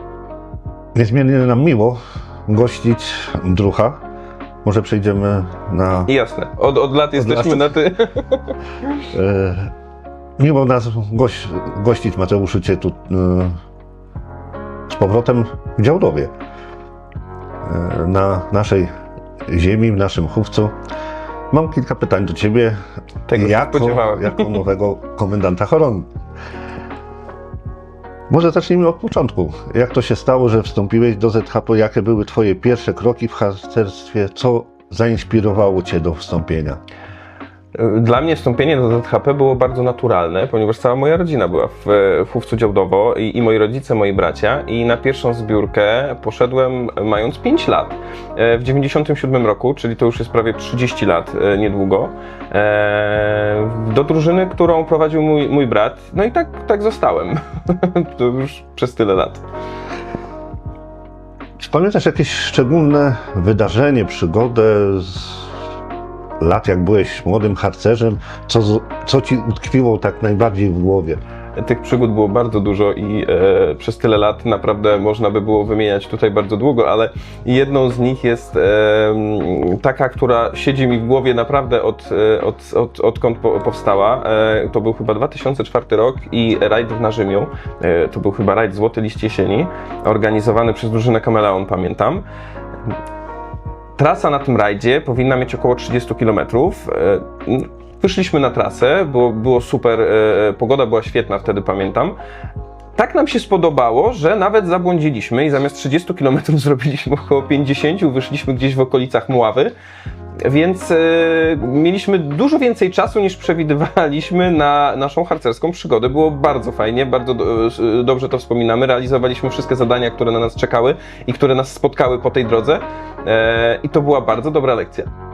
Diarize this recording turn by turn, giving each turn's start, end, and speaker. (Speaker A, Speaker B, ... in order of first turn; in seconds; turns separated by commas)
Speaker A: 0.9-4.0, Speaker A: 4.6-6.1, Speaker B: 6.1-8.5, Speaker A: 7.2-7.7, Speaker A: 9.1-9.7, Speaker A: 10.4-13.6, Speaker A: 14.9-16.3, Speaker A: 17.6-18.9, Speaker A: 19.5-20.8, Speaker A: 21.5-22.8, Speaker B: 23.3-24.6, Speaker A: 23.4-26.1, Speaker A: 28.3-36.8, Speaker B: 37.7-59.4, Speaker A: 61.6-65.5, Speaker A: 66.4-71.2, Speaker B: 71.6-92.2, Speaker B: 94.0-102.2, Speaker B: 103.0-109.7, Speaker B: 110.4-125.1